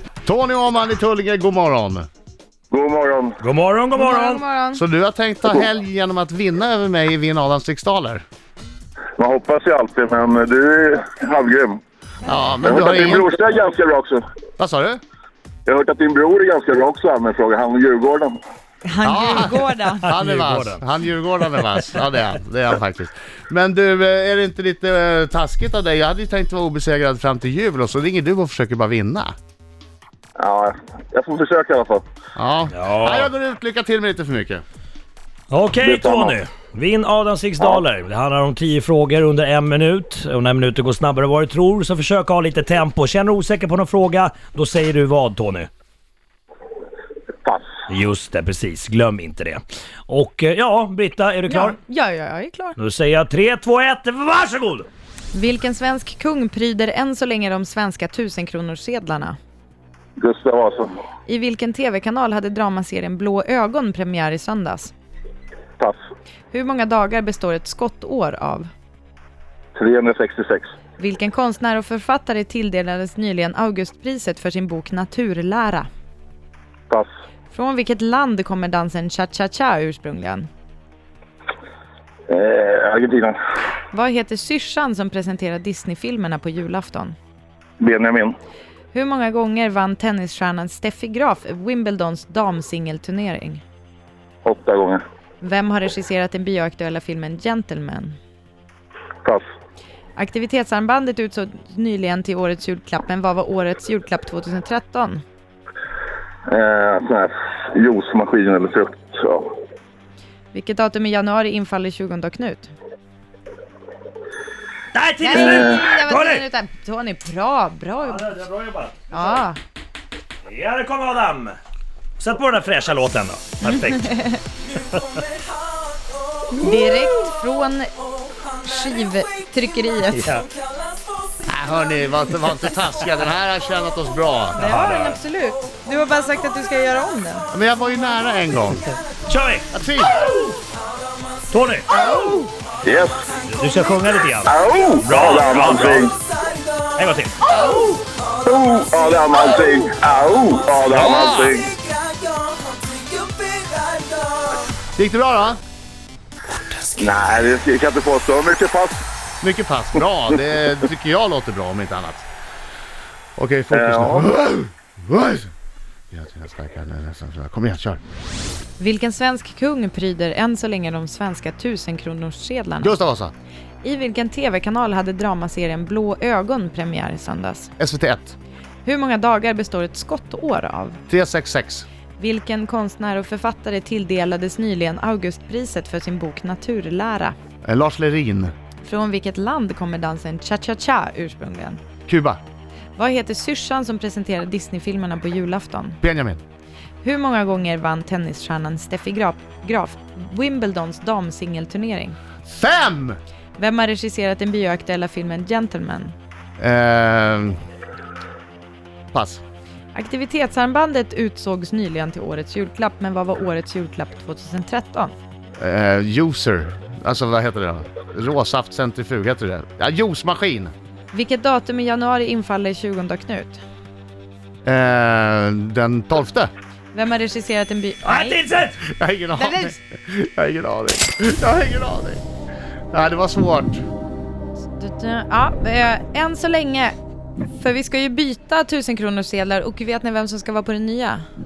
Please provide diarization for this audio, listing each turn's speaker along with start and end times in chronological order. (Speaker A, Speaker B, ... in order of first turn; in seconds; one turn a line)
Speaker A: 0.2-2.1
Speaker B: 2.7-3.4
Speaker C: 3.4-4.4
Speaker D: 3.9-4.8
Speaker A: 4.7-8.2
Speaker B: 9.2-11.8
Speaker A: 12.2-13.3
Speaker B: 12.6-14.2
Speaker A: 14.6-15.0
Speaker B: 15.7-18.3
Speaker D: 18.8-20.1
Speaker A: 19.0-29.3
Speaker C: 20.0-20.8
Speaker B: 30.4-32.0
Speaker A: 32.3-34.6
Speaker C: 32.7-33.3
Speaker C: 35.5-45.7
Speaker B: 35.8-36.4
Speaker C: 47.9-51.8
Speaker D: 51.5-52.8
Speaker C: 52.8-54.9
Speaker D: 55.3-59.4
Speaker B: 60.2-60.9
Speaker D: 61.3-64.9
Speaker D: 66.5-68.7
Speaker B: 69.8-70.7
Speaker D: 71.0-75.9
Speaker D: 77.5-80.5
Speaker B: 82.3-83.3
Speaker D: 83.9-87.2
Speaker B: 87.8-88.3
Speaker D: 88.9-93.6
Speaker B: 94.4-95.0
Speaker D: 95.4-98.2
Speaker D: 100.2-105.2
Speaker B: 106.5-109.5
Speaker D: 110.5-112.7
Speaker C: 114.9-116.5
Speaker D: 115.2-118.3
Speaker B: 115.4-115.8
Speaker C: 118.0-119.4
Speaker D: 119.1-119.6
Speaker C: 120.4-121.6
Speaker C: 122.2-125.2
Speaker D: 123.6-124.4
Speaker D: 126.5-127.9
Speaker D: 128.6-130.2
Speaker C: 130.1-130.5
Speaker A: 131.4-134.6
Speaker D: 134.5-137.5
Speaker C: 134.6-135.2
Speaker A: 137.5-138.8
Speaker C: 139.2-139.7
Speaker A: 139.7-140.2
Speaker C: 141.5-141.9
Speaker D: 141.9-142.5
Speaker B: 142.8-143.3
Speaker C: 143.4-146.2
Speaker B: 144.4-146.1
Speaker C: 146.9-147.4
Speaker A: 147.4-148.0
Speaker B: 148.4-151.8
Speaker A: 150.9-151.6
Speaker A: 154.9-155.6
Speaker B: 156.9-159.0
Speaker A: 159.4-162.3
Speaker A: 163.3-165.5
Speaker B: 163.7-164.3
Speaker A: 166.1-168.0
Speaker D: 168.8-173.0
Speaker A: 172.8-173.3
Speaker D: 173.8-177.7
Speaker A: 177.8-178.3
Speaker D: 178.8-181.0
Speaker A: 181.1-181.8
Speaker D: 182.2-187.3
Speaker A: 187.6-188.5
Speaker D: 188.8-191.8
Speaker A: 192.1-192.4
Speaker D: 192.9-196.0
Speaker A: 196.0-196.4
Speaker D: 197.0-202.2
Speaker A: 202.4-203.2
Speaker D: 203.6-206.1
Speaker A: 206.6-207.6
Speaker A: 209.1-209.4
Speaker D: 209.9-215.1
Speaker A: 215.6-220.7
Speaker D: 221.1-223.6
Speaker A: 224.6-226.5
Speaker D: 226.9-228.4
Speaker C: 228.0-228.8
Speaker A: 228.8-232.2
Speaker D: 229.3-229.8
Speaker A: 232.9-233.8
Speaker D: 234.7-236.9
Speaker D: 237.4-241.2